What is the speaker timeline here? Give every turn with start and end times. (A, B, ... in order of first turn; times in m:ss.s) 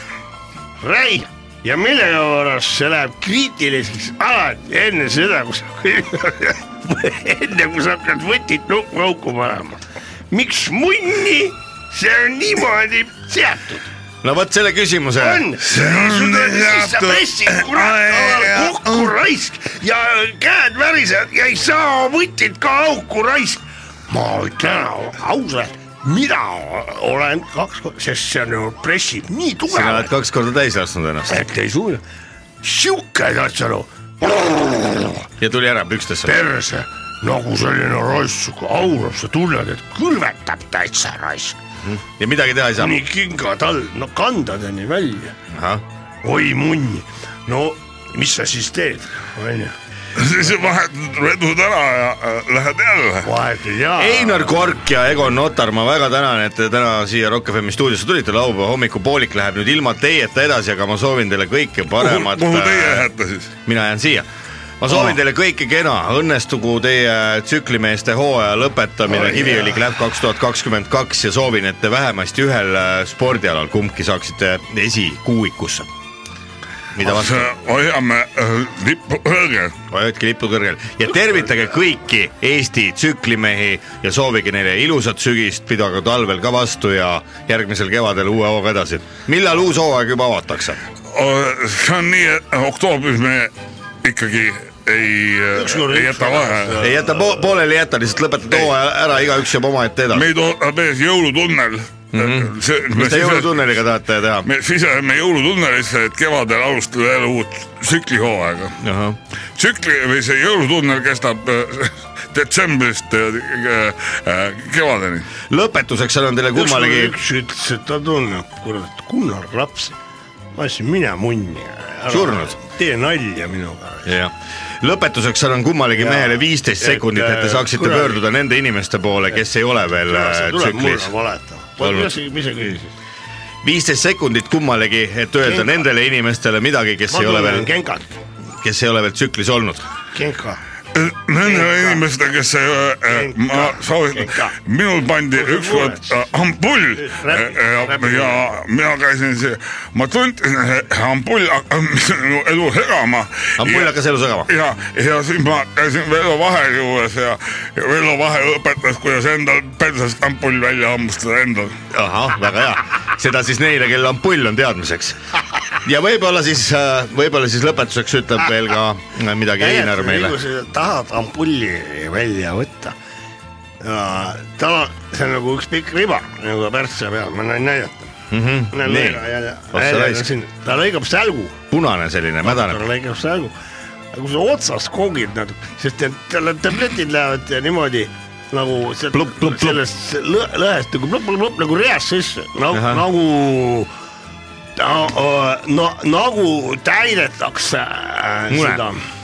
0:00.8-0:13.9 A
0:14.2-0:15.5 B
0:15.2-0:30.1 A
0:15.6-0:19.1 C
0:29.7-0:31.4 B
0:31.3-0:32.0 A
0:32.6-0:35.3 A
0:35.4-0:36.4 B
0:36.3-0:41.6 A
0:41.8-0:43.0 B
0:42.8-0:45.4 A
0:45.5-0:45.8 B
0:46.2-0:49.8 A
0:50.2-0:53.3 C
0:53.2-0:54.7 A
0:54.0-1:03.1 B
1:02.0-1:03.5 C
1:03.6-1:04.3 B
1:04.8-1:15.9 B
1:09.2-1:09.5 A
1:17.0-1:17.6 B
1:17.0-1:19.8 C
1:19.9-1:30.8 B
1:31.1-1:36.9 C
1:35.5-1:37.5 A
1:36.8-1:40.3 B
1:40.1-1:43.7 C
1:42.1-1:44.5 B
1:44.4-1:48.8 C
1:48.8-1:49.2 B
1:49.6-1:55.3 C
1:55.5-1:57.2 B
1:56.5-2:00.0 A
2:00.6-2:04.2 A
2:02.1-2:02.6 B
2:04.1-2:11.1 B
2:05.9-2:08.2 A
2:10.1-2:12.9 A
2:11.8-2:12.1 B
2:13.6-2:17.7 B
2:15.4-2:15.8 A
2:17.1-2:18.1 A
2:18.6-2:19.8 B
2:20.1-2:20.6 A
2:20.9-2:33.9 C
2:21.4-2:22.0 A
2:23.1-2:24.5 A
2:25.4-2:26.1 A
2:27.0-2:28.5 A
2:33.6-2:34.5 B
2:34.5-2:41.8 C
2:41.9-2:45.2 B
2:45.8-2:50.4 B
2:49.6-2:53.0 A
2:53.8-2:58.1 A
2:58.3-2:59.2 B
2:58.7-3:01.6 A
2:59.7-3:00.3 B
3:01.7-3:02.8 B
3:02.4-3:03.5 A
3:04.1-3:13.9 A
3:09.1-3:09.8 B
3:12.7-3:13.0 B
3:14.8-3:19.0 A
3:18.5-3:18.8 B